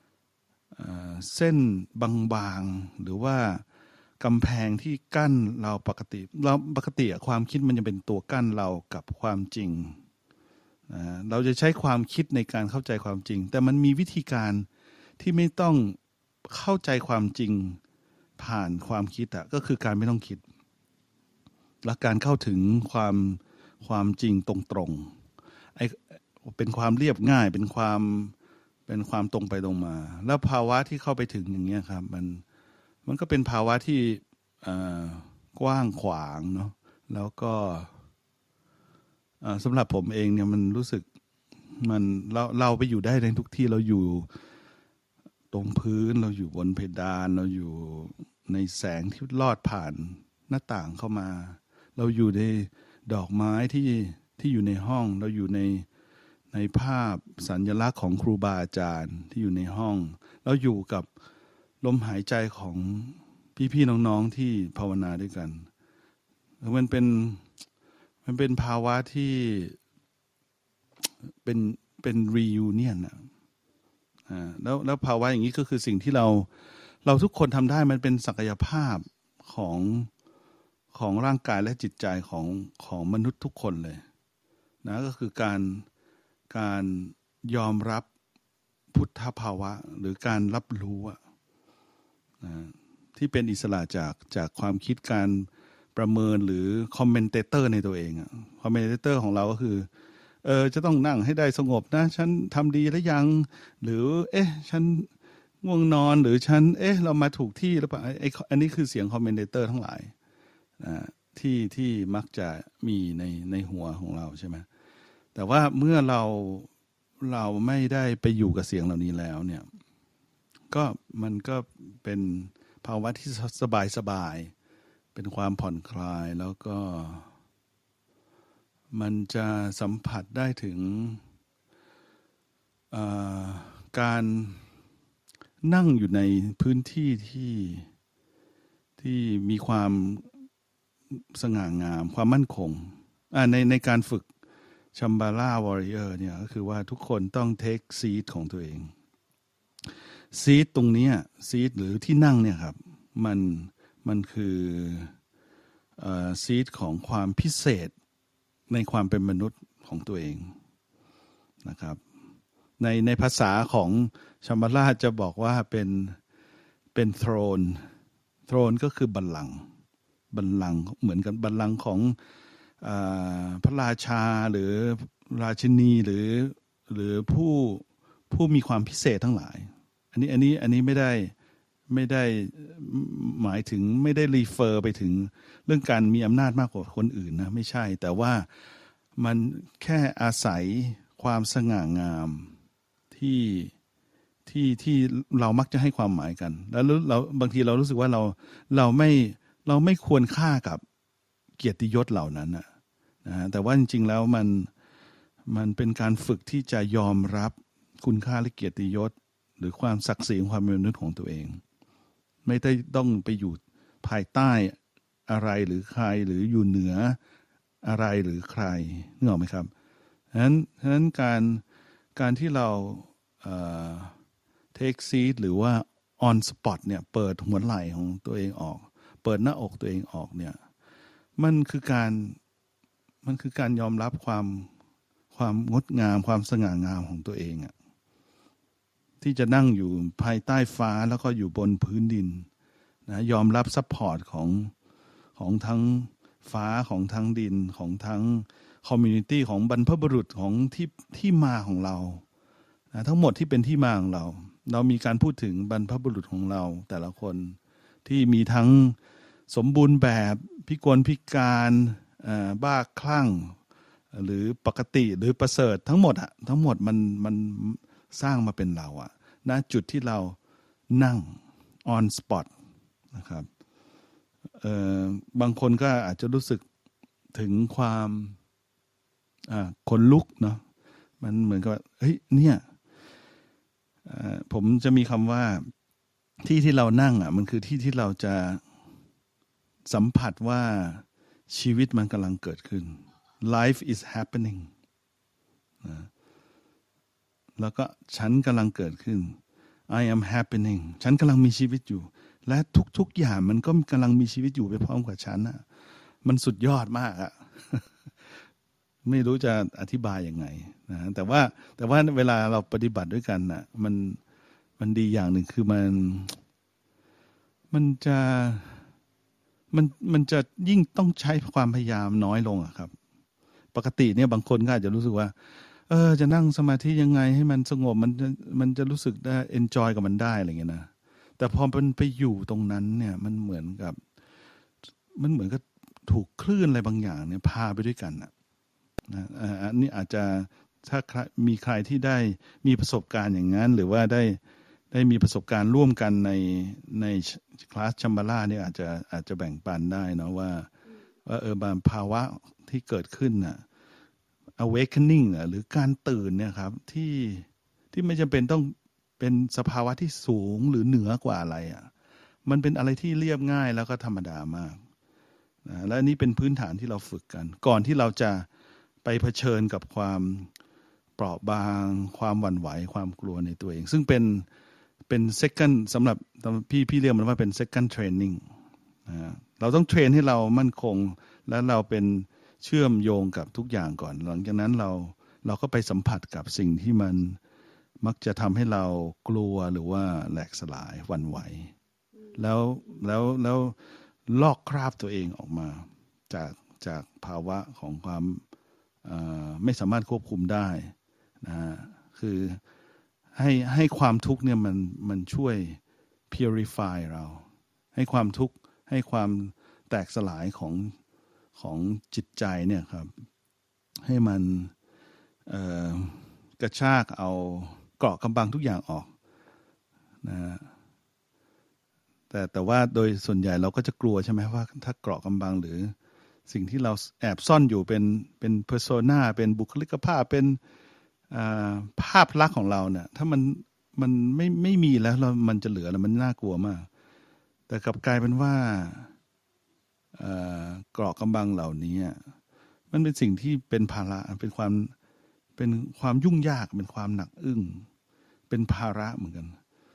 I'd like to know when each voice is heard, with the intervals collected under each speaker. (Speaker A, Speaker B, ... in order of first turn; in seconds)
Speaker A: 0.7-3.6, 4.2-10.0, 10.9-14.7, 15.2-17.8, 18.4-20.4, 21.8-25.1, 25.7-28.3, 28.9-32.4, 33.0-37.9, 39.4-41.0, 41.8-44.3, 45.5-55.9, 56.5-61.1, 61.8-65.7, 66.6-67.4, 68.2-69.8, 71.4-73.2, 74.3-76.5, 77.0-80.1, 80.9-84.0, 84.8-85.9, 86.5-88.1, 88.9-91.2, 92.4-99.9, 100.4-105.1, 105.6-110.1, 110.8-114.7, 115.3-116.7, 117.2-119.7, 120.7-124.5, 125.1-127.3, 128.9-131.2, 132.9-134.6, 135.6-137.9, 139.0-140.3, 141.1-144.3, 144.9-148.9, 150.3-155.1, 156.0-157.9, 158.7-160.6, 161.6-162.0, 162.8-166.2, 166.9-167.9, 168.5-169.7, 170.3-172.2, 172.8-181.3, 181.9-188.5, 189.2-192.5, 193.1-193.7, 194.4-200.8, 201.6-202.7, 203.2-204.7, 205.4-211.6, 212.4-214.8, 215.3-217.2, 217.8-219.7, 220.3-221.6, 222.2-224.2, 224.7-230.6, 231.4-232.4, 233.2-234.7, 235.3-237.7, 239.2-242.5, 243.1-244.7, 245.3-252.2, 252.9-259.0, 259.5-263.6, 264.1-270.4, 270.9-272.5, 273.1-273.5, 274.6-276.6, 277.3-278.4, 279.5-280.6, 281.2-282.6, 284.0-285.7, 286.4-288.6, 289.9-294.7, 295.8-296.1, 297.6-305.6, 306.2-308.4, 309.0-314.2, 314.8-316.4, 317.7-318.8, 319.7-322.9, 323.7-325.3, 325.9-334.0, 335.1-338.3, 339.1-344.4, 344.9-350.7, 351.2-353.6, 354.6-361.9, 362.4-364.8, 365.6-368.5, 369.0-370.5, 371.2-374.5, 375.1-378.4, 379.1-387.4, 388.0-391.7, 392.4-398.4, 399.0-402.6, 403.3-405.8, 406.3-410.9, 411.6-413.1, 414.0-414.7, 415.5-419.1, 420.2-420.7, 422.3-425.9, 426.5-430.6, 431.3-436.9, 437.7-439.1, 440.1-442.2, 442.9-444.9, 445.6-447.9, 448.5-449.6